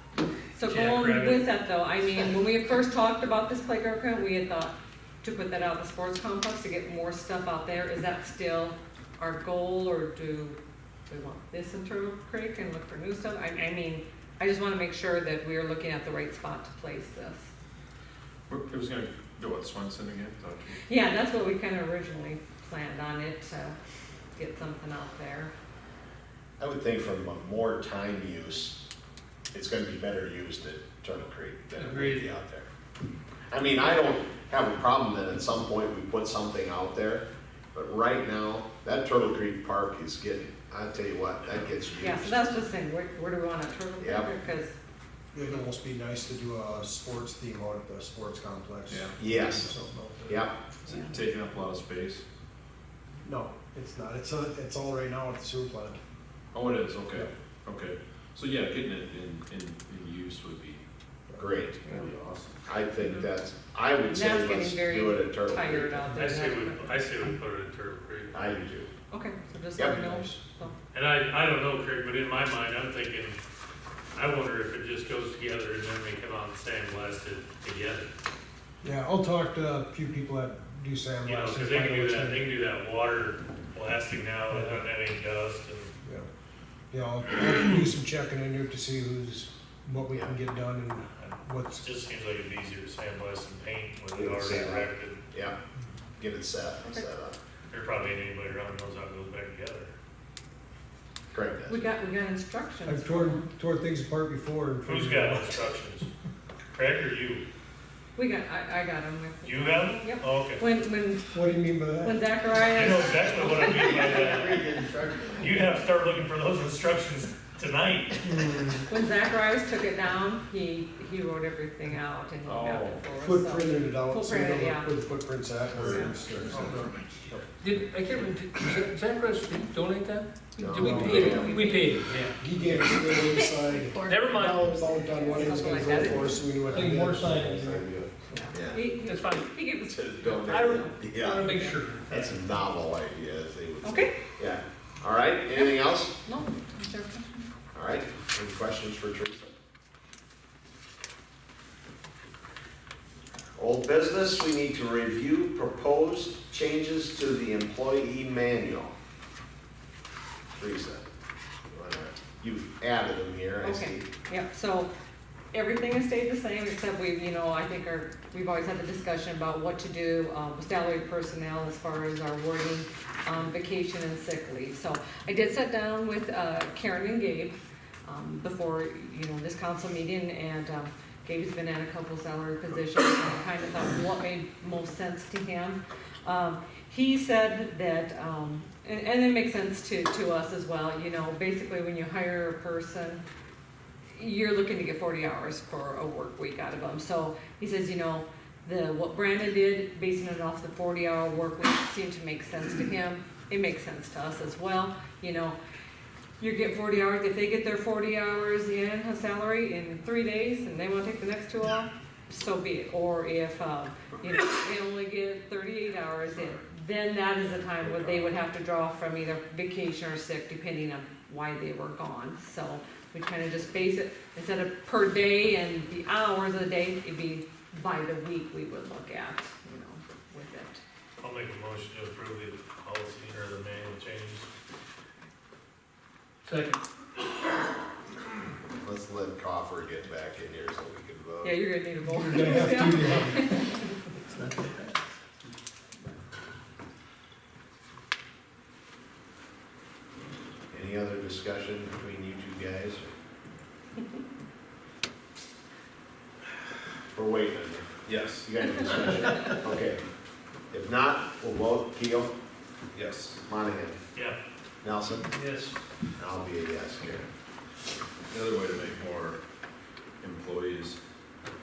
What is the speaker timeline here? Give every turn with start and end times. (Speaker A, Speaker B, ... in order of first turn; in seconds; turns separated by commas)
Speaker A: 0.6-10.6, Speaker B: 0.6-1.5, Speaker A: 11.1-17.5, Speaker C: 18.5-20.8, Speaker A: 20.9-23.8, Speaker A: 24.4-25.5, Speaker D: 26.6-28.8, Speaker D: 29.5-32.7, Speaker B: 31.8-32.3, Speaker D: 33.5-42.4, Speaker A: 42.0-44.8, Speaker D: 44.0-44.3, Speaker E: 45.3-50.4, Speaker C: 48.9-49.7, Speaker D: 49.2-49.7, Speaker D: 50.3-50.6, Speaker C: 50.9-52.2, Speaker A: 50.9-51.1, Speaker E: 53.2-56.0, Speaker C: 56.5-60.8, Speaker D: 61.4-61.8, Speaker C: 61.6-62.6, Speaker D: 62.6-66.2, Speaker A: 63.0-63.3, Speaker A: 64.1-67.0, Speaker F: 66.1-68.7, Speaker D: 68.3-68.9, Speaker A: 69.1-70.7, Speaker D: 69.8-70.2, Speaker F: 70.9-73.4, Speaker F: 74.2-78.1, Speaker E: 78.8-82.5, Speaker F: 81.2-85.9, Speaker E: 84.5-84.9, Speaker E: 86.0-86.3, Speaker E: 86.9-91.8, Speaker F: 91.2-95.2, Speaker D: 94.1-95.6, Speaker D: 96.2-97.4, Speaker F: 97.7-99.9, Speaker D: 101.3-101.8, Speaker A: 101.7-103.5, Speaker E: 102.8-105.5, Speaker F: 104.8-106.1, Speaker F: 106.7-107.4, Speaker A: 108.2-111.4, Speaker F: 109.4-110.6, Speaker E: 111.3-112.2, Speaker A: 112.0-114.2, Speaker F: 112.7-114.8, Speaker D: 113.9-115.4, Speaker F: 115.3-118.5, Speaker B: 118.3-118.8, Speaker A: 118.9-124.9, Speaker C: 122.5-123.0, Speaker E: 123.2-127.5, Speaker A: 125.8-126.2, Speaker B: 127.6-132.4, Speaker A: 130.6-132.2, Speaker D: 130.6-131.6, Speaker E: 130.7-131.5, Speaker E: 132.3-138.4, Speaker A: 132.9-136.5, Speaker B: 134.1-134.8, Speaker D: 135.8-136.3, Speaker B: 136.7-137.9, Speaker D: 137.8-138.0, Speaker A: 138.3-141.8, Speaker D: 138.5-138.9, Speaker B: 138.9-139.5, Speaker D: 139.9-141.5, Speaker B: 140.3-142.3, Speaker D: 142.1-146.2, Speaker A: 143.8-144.1, Speaker A: 145.6-147.5, Speaker D: 147.7-149.5, Speaker D: 153.6-158.9, Speaker D: 160.6-161.0, Speaker D: 161.7-164.1, Speaker A: 163.6-164.9, Speaker A: 165.5-193.2, Speaker A: 194.1-205.6, Speaker A: 206.4-230.8, Speaker C: 217.6-218.3, Speaker F: 231.2-234.5, Speaker B: 236.4-236.8, Speaker D: 238.8-241.6, Speaker A: 241.4-243.9, Speaker E: 242.0-243.7, Speaker D: 250.7-253.1, Speaker D: 257.1-260.0, Speaker C: 258.1-259.6, Speaker D: 260.7-262.3, Speaker C: 262.9-263.4, Speaker D: 263.4-264.0, Speaker D: 264.8-265.3, Speaker B: 265.3-265.8, Speaker D: 266.2-267.3, Speaker C: 268.3-269.4, Speaker C: 270.2-271.0